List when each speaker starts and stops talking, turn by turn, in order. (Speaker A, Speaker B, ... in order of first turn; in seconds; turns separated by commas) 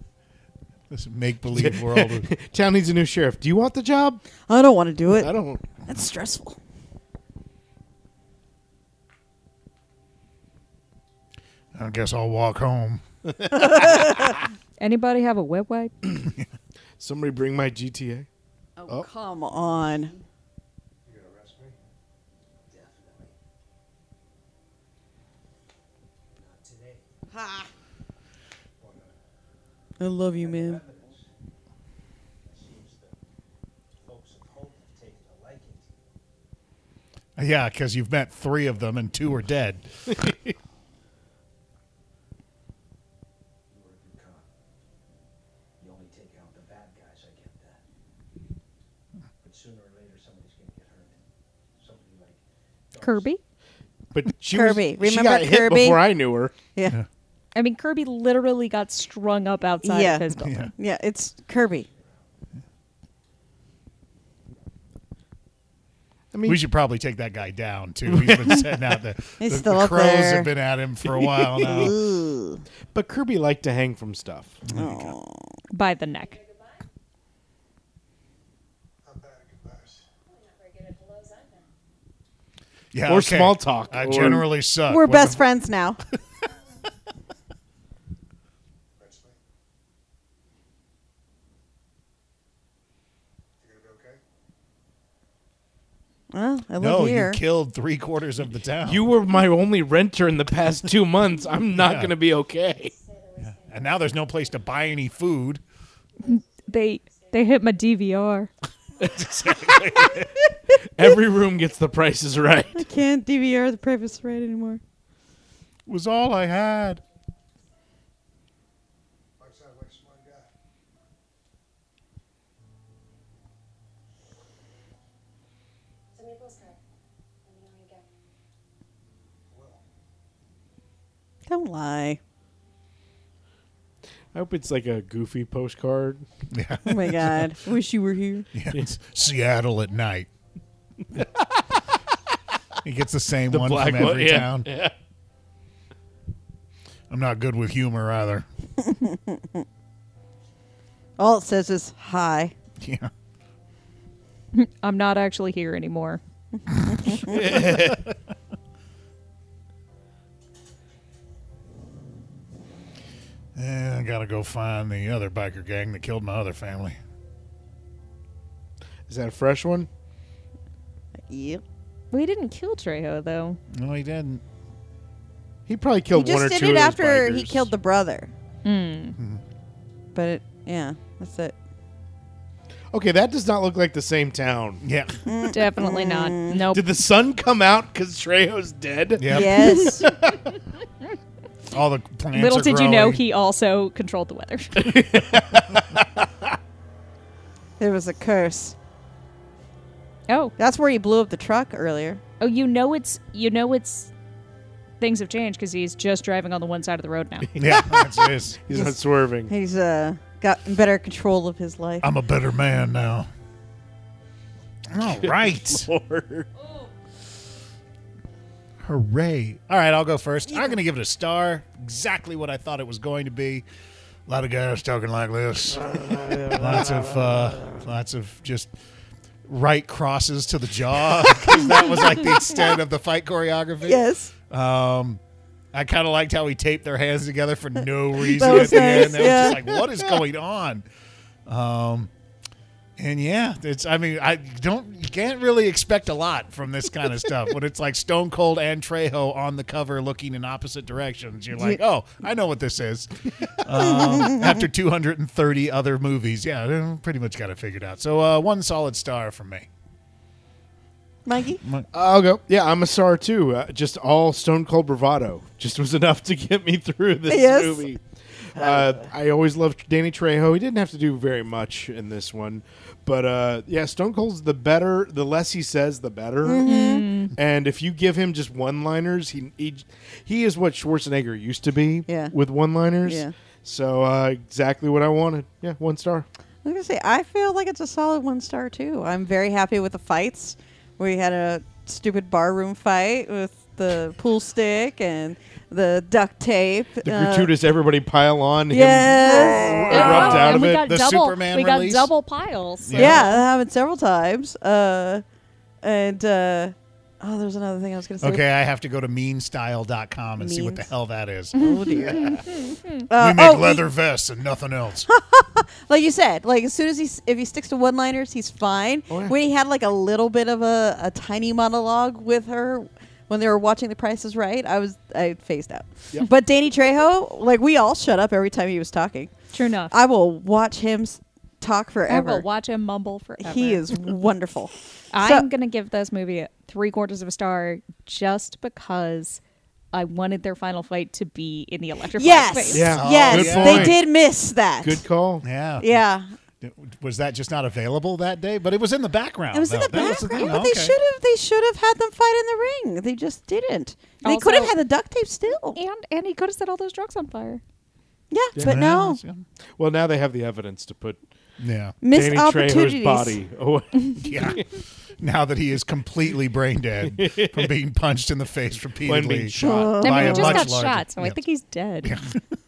Speaker A: 0.9-2.3, Speaker B: 1.5-4.2, Speaker C: 4.5-6.6, Speaker B: 5.0-5.6, Speaker A: 11.7-13.0, Speaker C: 13.5-14.3, Speaker D: 14.8-15.9, Speaker B: 17.0-18.3, Speaker C: 18.8-20.1, Speaker E: 19.4-20.2, Speaker F: 21.1-21.8, Speaker E: 22.7-23.3, Speaker E: 26.4-27.0, Speaker C: 27.3-27.7, Speaker F: 28.8-29.1, Speaker C: 30.0-30.8, Speaker E: 30.3-31.3, Speaker E: 32.4-33.2, Speaker E: 34.0-36.0, Speaker A: 37.4-39.8, Speaker B: 40.1-40.5, Speaker E: 43.7-44.5, Speaker E: 45.8-47.8, Speaker E: 49.4-51.2, Speaker E: 51.8-53.3, Speaker D: 53.0-53.4, Speaker B: 54.1-56.5, Speaker C: 54.5-56.1, Speaker D: 57.5-60.7, Speaker C: 59.8-61.9, Speaker A: 60.4-60.7, Speaker B: 66.3-66.6, Speaker A: 66.4-72.0, Speaker B: 68.1-68.8, Speaker C: 69.4-70.5, Speaker B: 71.0-72.0, Speaker C: 71.6-72.6, Speaker B: 72.9-74.6, Speaker A: 74.6-75.1, Speaker C: 74.7-75.4, Speaker D: 75.7-76.4, Speaker G: 75.9-76.9, Speaker F: 79.0-80.1, Speaker G: 80.2-81.7, Speaker A: 82.9-85.4, Speaker B: 83.0-84.5, Speaker C: 84.9-86.0, Speaker F: 88.9-89.4, Speaker F: 93.6-94.2, Speaker C: 96.3-97.4, Speaker A: 96.8-99.1, Speaker B: 98.8-102.9, Speaker A: 101.7-102.2, Speaker G: 102.8-104.8, Speaker A: 103.4-105.6, Speaker G: 106.2-108.0, Speaker D: 106.2-108.5, Speaker B: 109.0-112.9, Speaker A: 109.2-110.1, Speaker C: 112.7-114.8, Speaker A: 115.9-117.0, Speaker F: 119.4-120.5, Speaker G: 126.1-126.8, Speaker G: 127.4-128.1, Speaker F: 129.5-129.8, Speaker C: 131.5-132.2, Speaker B: 134.3-136.2, Speaker A: 136.5-137.5, Speaker C: 136.8-138.5, Speaker A: 138.5-140.3, Speaker B: 141.1-141.6, Speaker A: 142.8-144.7, Speaker B: 143.5-144.9, Speaker A: 147.1-148.5, Speaker C: 148.8-149.6, Speaker C: 151.2-152.5, Speaker A: 152.8-153.1, Speaker D: 154.5-156.2, Speaker C: 156.8-157.4, Speaker B: 157.1-158.1, Speaker A: 163.5-167.0, Speaker B: 169.1-169.9, Speaker C: 171.2-171.6, Speaker D: 172.1-173.6, Speaker A: 173.7-174.4, Speaker B: 175.7-177.7, Speaker C: 176.1-178.3, Speaker D: 178.6-179.2, Speaker A: 179.2-179.4, Speaker C: 180.1-181.5, Speaker B: 182.9-184.8, Speaker A: 184.8-185.2, Speaker C: 185.2-186.6, Speaker D: 185.5-186.9, Speaker B: 186.7-190.5, Speaker A: 189.2-190.0, Speaker C: 189.3-190.1, Speaker A: 191.7-193.2, Speaker D: 192.3-195.0, Speaker B: 194.8-196.5, Speaker C: 197.8-198.7, Speaker D: 200.3-200.5, Speaker C: 200.6-202.2, Speaker D: 202.4-204.1, Speaker D: 205.0-207.5, Speaker B: 207.4-209.5, Speaker A: 207.6-208.6, Speaker C: 209.5-212.1, Speaker A: 212.0-213.3, Speaker A: 214.9-215.9, Speaker B: 215.0-216.5, Speaker G: 216.6-216.9, Speaker A: 218.8-223.6, Speaker C: 220.5-220.8, Speaker A: 224.3-225.9, Speaker B: 226.3-226.6, Speaker A: 226.5-228.7, Speaker A: 229.4-235.2, Speaker C: 231.8-232.3, Speaker C: 233.8-234.3, Speaker A: 235.7-240.8, Speaker C: 238.2-239.8, Speaker B: 238.3-240.2, Speaker A: 241.5-242.1, Speaker A: 243.0-259.7, Speaker C: 253.8-254.7, Speaker C: 261.2-261.6, Speaker B: 261.9-276.6, Speaker C: 267.3-267.8, Speaker C: 276.4-277.1, Speaker D: 276.6-277.3, Speaker B: 277.3-286.3, Speaker C: 282.1-282.3, Speaker C: 283.0-283.3, Speaker C: 286.6-297.5, Speaker B: 297.0-300.9, Speaker C: 298.7-300.2, Speaker D: 299.4-303.4, Speaker A: 299.9-302.1, Speaker A: 302.8-303.4, Speaker C: 302.9-305.2, Speaker B: 303.0-303.3, Speaker C: 305.8-308.4, Speaker A: 308.2-312.4, Speaker C: 310.4-310.9, Speaker C: 311.5-312.4, Speaker D: 311.5-313.0, Speaker C: 313.1-313.8, Speaker A: 313.1-315.1, Speaker C: 315.1-329.3, Speaker B: 319.1-319.4, Speaker D: 329.5-329.9, Speaker C: 329.9-332.4, Speaker D: 332.1-333.9, Speaker C: 333.4-335.5, Speaker D: 335.1-339.4, Speaker D: 339.9-342.9, Speaker C: 342.2-345.0, Speaker B: 342.7-344.1, Speaker A: 342.8-344.0, Speaker B: 344.8-345.4, Speaker A: 345.4-345.9, Speaker C: 345.8-346.3, Speaker A: 346.6-350.9, Speaker C: 349.5-355.8, Speaker D: 354.2-354.8, Speaker D: 355.7-357.6, Speaker C: 358.3-359.2, Speaker B: 358.5-358.8, Speaker A: 358.6-359.4, Speaker B: 359.8-361.2, Speaker A: 361.6-362.0, Speaker C: 362.0-363.4, Speaker B: 362.0-364.7, Speaker A: 364.2-364.6, Speaker A: 365.2-371.4, Speaker B: 367.0-367.7, Speaker B: 369.0-370.2, Speaker C: 369.5-370.7, Speaker D: 370.0-372.2, Speaker A: 372.0-372.4